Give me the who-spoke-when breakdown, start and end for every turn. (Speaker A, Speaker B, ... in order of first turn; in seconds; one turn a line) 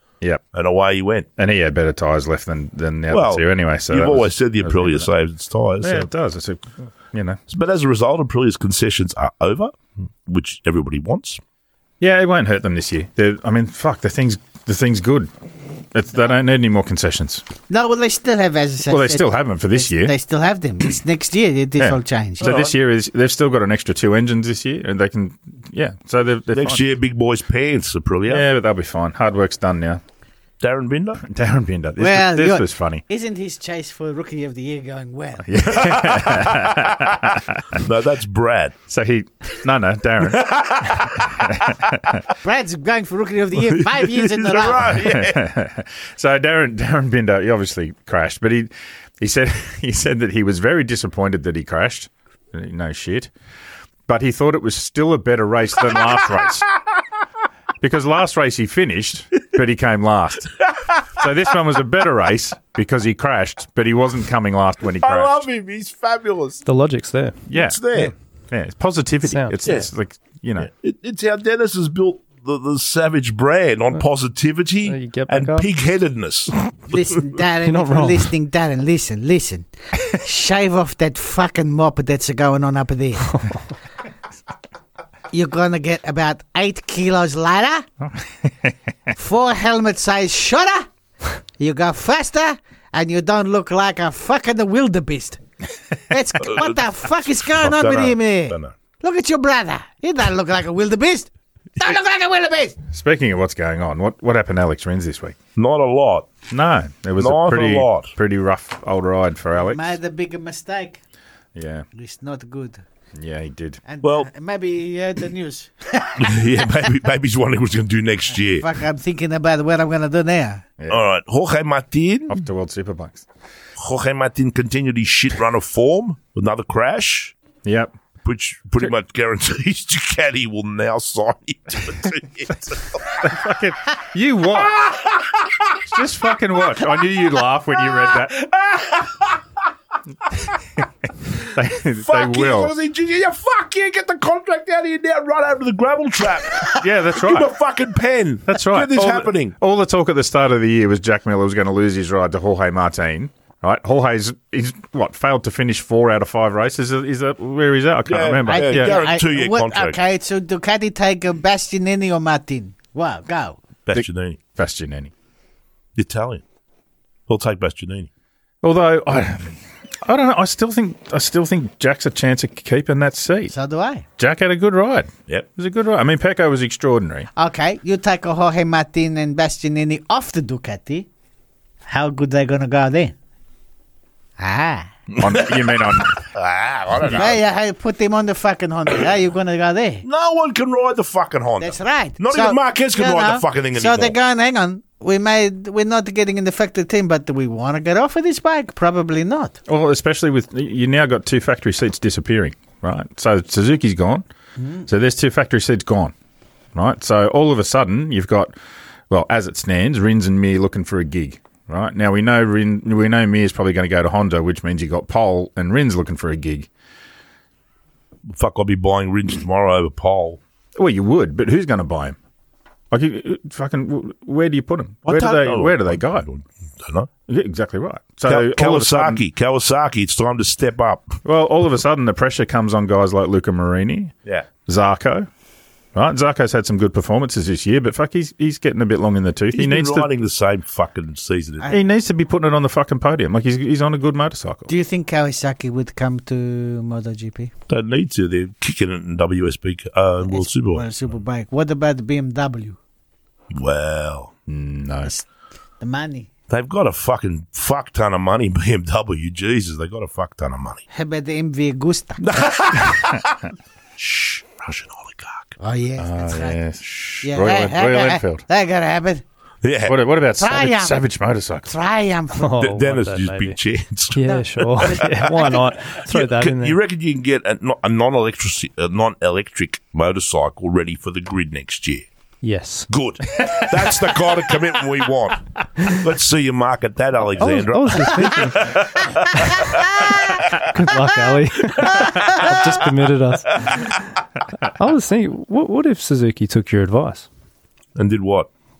Speaker A: 0.5-1.3
Speaker B: 1.4-5.1
Speaker A: 3.1-6.1
Speaker B: 5.8-7.4
Speaker A: 7.5-11.4
Speaker B: 12.0-15.3
Speaker B: 15.9-17.4
Speaker C: 17.7-22.7
Speaker B: 18.9-20.1
Speaker B: 21.8-26.8
Speaker A: 26.5-28.4
Speaker B: 28.3-30.0
Speaker A: 30.6-31.2
Speaker B: 31.2-33.0
Speaker C: 32.0-35.5
Speaker B: 35.5-37.8
Speaker A: 35.7-38.7
Speaker B: 38.9-42.2
Speaker A: 40.3-41.5
Speaker C: 42.4-45.0
Speaker A: 43.7-45.4
Speaker B: 44.9-53.3
Speaker B: 54.1-56.7
Speaker B: 57.8-65.5
Speaker A: 65.0-66.6
Speaker D: 66.7-67.4
Speaker B: 67.5-70.7
Speaker A: 67.5-68.1
Speaker A: 69.6-69.9
Speaker A: 70.6-76.5
Speaker D: 74.8-75.7
Speaker C: 76.9-83.5
Speaker D: 77.6-78.3
Speaker C: 85.3-87.9
Speaker B: 88.4-88.7
Speaker C: 89.2-90.9
Speaker C: 91.6-95.4
Speaker C: 96.1-102.8
Speaker A: 96.4-96.8
Speaker A: 97.4-98.7
Speaker B: 102.9-105.3
Speaker A: 105.5-106.3
Speaker B: 106.5-109.9
Speaker A: 107.2-108.1
Speaker C: 109.6-111.0
Speaker B: 111.5-111.8
Speaker C: 111.9-112.8
Speaker B: 113.1-113.8
Speaker C: 113.8-116.7
Speaker A: 114.0-114.3
Speaker A: 116.2-118.7
Speaker C: 118.4-120.7
Speaker A: 120.9-122.4
Speaker B: 122.3-123.2
Speaker A: 123.8-127.3
Speaker B: 127.6-127.9
Speaker A: 128.2-133.3
Speaker B: 133.2-135.0
Speaker B: 135.8-138.5
Speaker B: 141.4-142.7
Speaker A: 141.9-149.5
Speaker B: 146.8-147.5
Speaker B: 148.5-159.0
Speaker A: 158.1-160.0
Speaker C: 158.4-163.6
Speaker A: 163.8-164.4
Speaker B: 163.9-165.1
Speaker A: 165.9-166.4
Speaker A: 167.3-168.1
Speaker B: 168.6-173.5
Speaker C: 173.5-174.1
Speaker B: 174.2-177.3
Speaker C: 177.3-181.1
Speaker C: 181.8-183.1
Speaker C: 184.4-184.9
Speaker A: 185.1-187.4
Speaker B: 185.2-186.2
Speaker C: 187.0-190.0
Speaker A: 190.0-194.2
Speaker C: 191.6-199.6
Speaker B: 199.7-204.2
Speaker C: 204.6-204.8
Speaker B: 204.8-206.1
Speaker B: 206.7-208.5
Speaker B: 209.1-216.7
Speaker A: 218.3-220.4
Speaker B: 220.8-222.2
Speaker B: 222.9-226.3
Speaker A: 225.1-227.1
Speaker B: 227.3-229.2
Speaker A: 228.2-231.2
Speaker B: 231.2-234.1
Speaker B: 234.7-235.3
Speaker B: 235.9-240.1
Speaker A: 239.5-241.7
Speaker C: 241.6-241.8
Speaker B: 241.7-244.7
Speaker C: 244.7-247.5
Speaker A: 247.7-250.9
Speaker C: 250.2-252.8
Speaker A: 253.5-254.3
Speaker B: 254.5-255.1
Speaker C: 255.8-256.3
Speaker A: 256.5-260.8
Speaker C: 260.9-262.2
Speaker A: 262.2-265.6
Speaker C: 265.6-266.6
Speaker B: 266.0-268.4
Speaker A: 266.8-267.3
Speaker C: 267.2-269.2
Speaker A: 269.6-270.1
Speaker B: 269.9-271.7
Speaker C: 270.4-271.0
Speaker C: 271.7-272.6
Speaker D: 272.3-273.6
Speaker A: 272.6-282.1
Speaker D: 274.1-276.8
Speaker C: 274.3-275.5
Speaker D: 282.4-282.9
Speaker A: 282.9-290.4
Speaker D: 287.4-297.3
Speaker A: 292.4-292.7
Speaker A: 297.9-298.5